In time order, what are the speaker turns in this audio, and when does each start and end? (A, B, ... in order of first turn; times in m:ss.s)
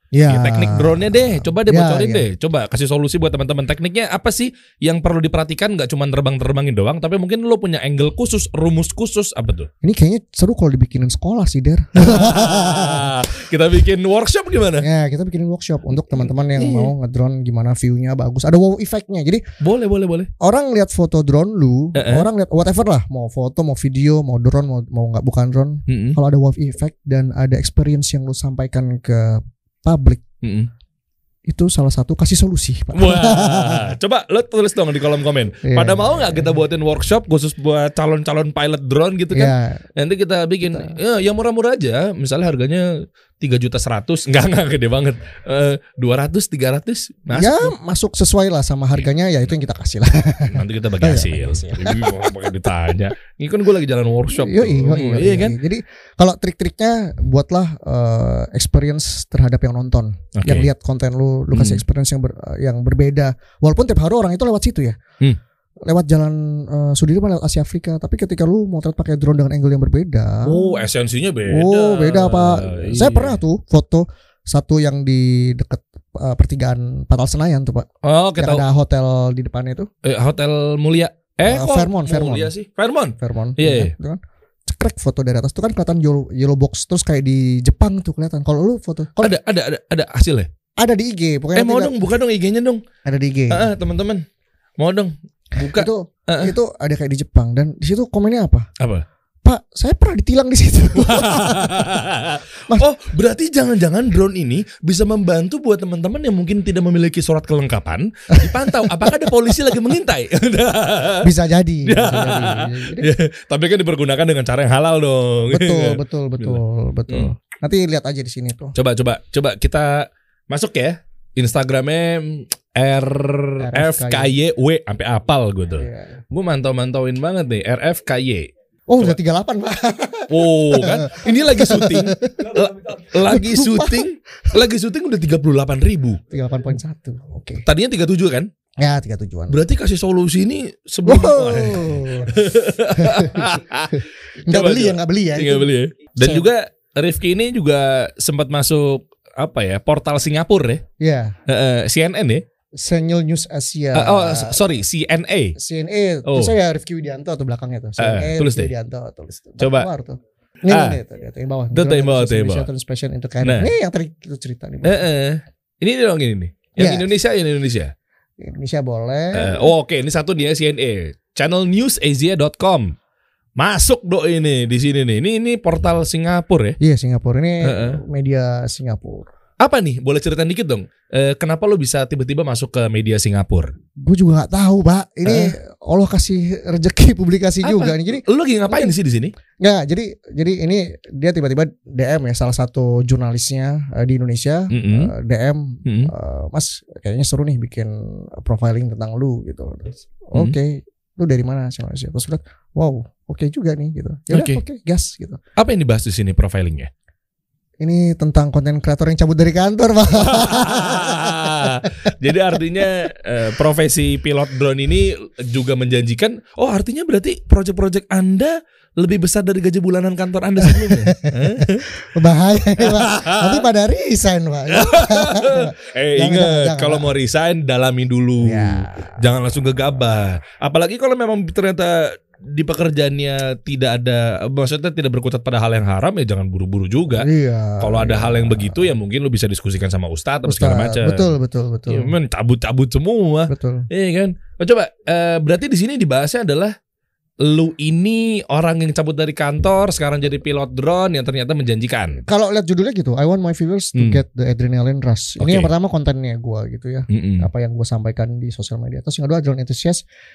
0:00.1-0:02.3 A
0:00.3-0:09.7 B
0:09.8-0:13.3 A
0:12.0-0:14.9 B
0:14.8-0:19.4 A
0:16.6-0:16.9 B
0:19.6-0:20.3 B
0:20.4-0:30.2 A
0:22.0-0:22.3 B
0:25.9-0:26.2 B
0:30.4-0:30.7 B
0:31.5-0:34.0 A
0:32.9-0:47.7 B
0:35.6-0:36.6 A
0:39.3-0:39.8 A
0:40.6-0:41.0 A
0:47.3-0:52.5 A
0:50.5-0:55.6 B
0:54.3-1:05.0 A
1:00.4-1:00.7 B
1:01.5-1:01.8 B
1:05.9-1:10.8 A
1:10.5-1:13.4 B
1:11.5-1:19.9 A
1:18.0-1:18.6 B
1:20.0-1:23.9 B
1:21.4-1:22.5 A
1:23.2-1:29.4 A
1:29.2-1:30.5 B
1:30.8-1:32.0 A
1:31.6-1:32.8 B
1:33.0-1:33.7 A
1:33.5-1:34.2 B
1:34.8-1:36.5 B
1:35.6-1:38.7 A
1:38.8-1:39.0 B
1:39.4-1:41.9 A
1:41.0-1:51.3 B
1:48.3-1:49.7 A
1:51.2-1:53.1 A
1:51.8-1:57.3 B
1:55.5-1:58.8 A
1:58.8-2:08.5 B
2:03.6-2:04.4 A
2:05.8-2:06.2 A
2:08.9-2:12.5 A
2:10.3-2:16.2 B
2:13.2-2:14.6 A
2:16.3-2:17.6 A
2:17.7-2:18.5 B
2:18.8-2:19.6 A
2:19.5-2:30.8 B
2:21.0-2:22.4 A
2:22.9-2:26.5 A
2:31.0-2:31.4 A
2:31.5-2:32.4 B
2:32.8-2:34.6 A
2:33.9-2:35.6 B
2:35.6-2:45.0 A
2:36.3-2:36.6 B
2:38.0-2:38.7 B
2:39.6-2:39.9 B
2:40.7-2:41.0 B
2:41.7-2:42.7 B
2:43.4-2:43.7 B
2:44.8-2:47.9 B
2:46.8-2:47.1 A
2:48.4-2:49.7 A
2:49.3-2:53.0 B
2:53.6-2:56.8 B
2:56.8-2:59.3 A
2:57.6-2:58.0 B
2:59.6-3:03.7 B
3:04.0-3:08.9 A
3:05.2-3:05.5 B
3:07.6-3:09.3 B
3:09.6-3:25.4 A
3:14.7-3:15.1 B
3:15.9-3:16.1 B
3:24.3-3:24.6 B
3:25.6-3:26.9 B
3:27.8-3:32.1 A
3:30.2-3:41.9 B
3:40.6-3:47.1 A
3:42.8-3:43.7 B
3:44.7-3:57.3 B
3:48.4-3:49.2 A
3:57.1-3:58.9 A
3:57.8-4:01.3 B
4:00.5-4:02.1 A
4:01.9-4:06.7 B
4:03.5-4:03.9 A
4:07.4-4:12.2 B
4:12.3-4:20.0 A
4:14.0-4:14.2 B
4:15.4-4:15.7 B
4:17.1-4:17.5 B